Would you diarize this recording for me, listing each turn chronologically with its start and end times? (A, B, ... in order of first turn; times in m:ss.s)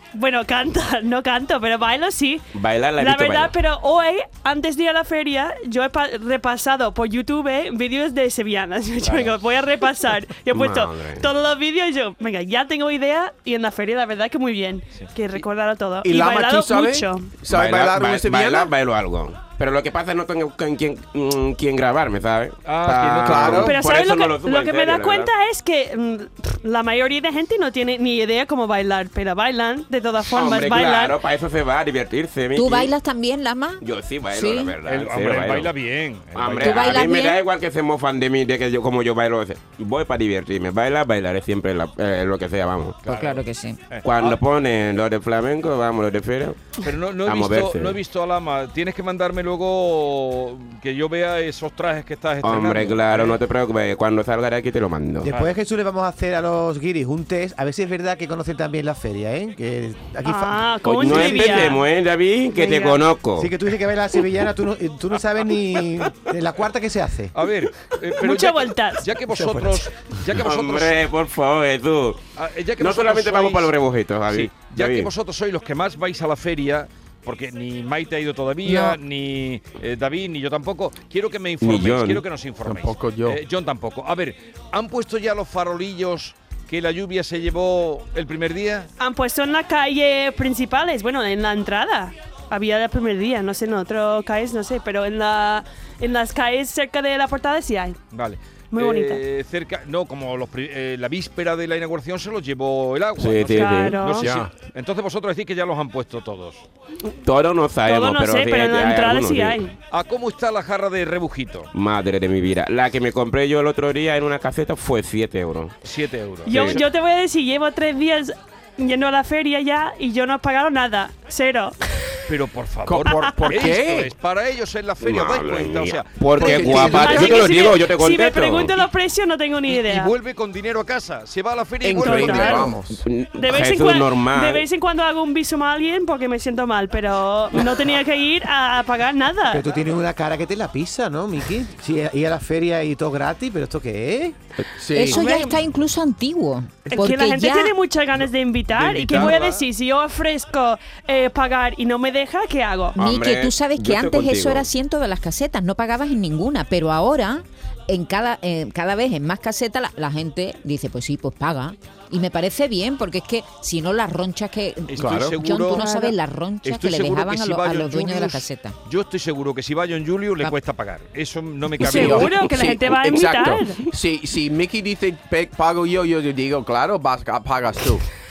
0:00.1-0:02.4 A
0:02.5-0:03.5 B
0:03.0-0:17.3 A
0:10.5-0:11.3 B
0:16.0-0:18.7 C
0:17.5-0:25.3 B
0:22.6-0:23.8 D
0:23.2-0:23.8 C
0:23.6-0:31.2 A
0:30.3-0:32.9 B
0:32.5-0:34.8 E
0:33.8-0:35.7 B
0:34.8-0:37.0 D
0:36.3-0:43.1 B
0:36.6-0:37.4 E
0:43.0-0:44.4 D
0:43.0-0:43.8 E
0:44.0-0:48.0 B
0:46.8-0:53.4 D
0:52.4-0:55.3 B
0:55.2-1:01.7 F
0:55.3-0:55.5 D
1:00.2-1:01.8 A
1:00.8-1:03.5 B
1:02.5-1:03.0 A
1:03.4-1:07.3 F
1:07.3-1:11.0 D
1:08.2-1:09.0 A
1:09.3-1:09.9 F
1:10.4-1:12.2 B
1:12.4-1:13.7 D
1:12.8-1:15.1 B
1:14.3-1:28.9 D
1:18.6-1:19.0 E
1:21.6-1:22.2 B
1:22.6-1:23.4 C
1:29.0-1:38.0 A
1:38.1-1:46.6 D
1:38.7-1:39.2 A
1:43.2-1:44.0 B
1:43.5-1:44.3 A
1:44.2-1:44.5 C
1:47.2-1:49.6 B
1:47.8-1:49.7 A
1:49.9-1:51.7 D
1:51.7-1:55.7 B
1:55.8-1:56.8 D
1:56.5-2:01.8 A
1:56.5-1:56.8 B
2:02.3-2:07.7 D
2:02.8-2:04.1 C
2:05.0-2:08.7 B
2:06.4-2:07.5 C
2:06.8-2:10.1 A
2:09.7-2:12.7 D
2:11.8-2:13.0 C
2:12.0-2:12.7 A
2:12.9-2:14.6 B
2:13.4-2:19.7 A
2:19.5-2:24.4 F
2:24.8-2:25.2 C
2:24.9-2:27.7 E
2:25.1-2:25.6 A
2:26.9-2:33.0 A
2:28.7-2:29.6 D
2:32.9-2:48.7 E
2:33.0-2:34.7 B
2:44.9-2:52.5 D
2:45.0-2:45.4 C
2:51.8-2:58.1 C
2:51.8-2:53.8 A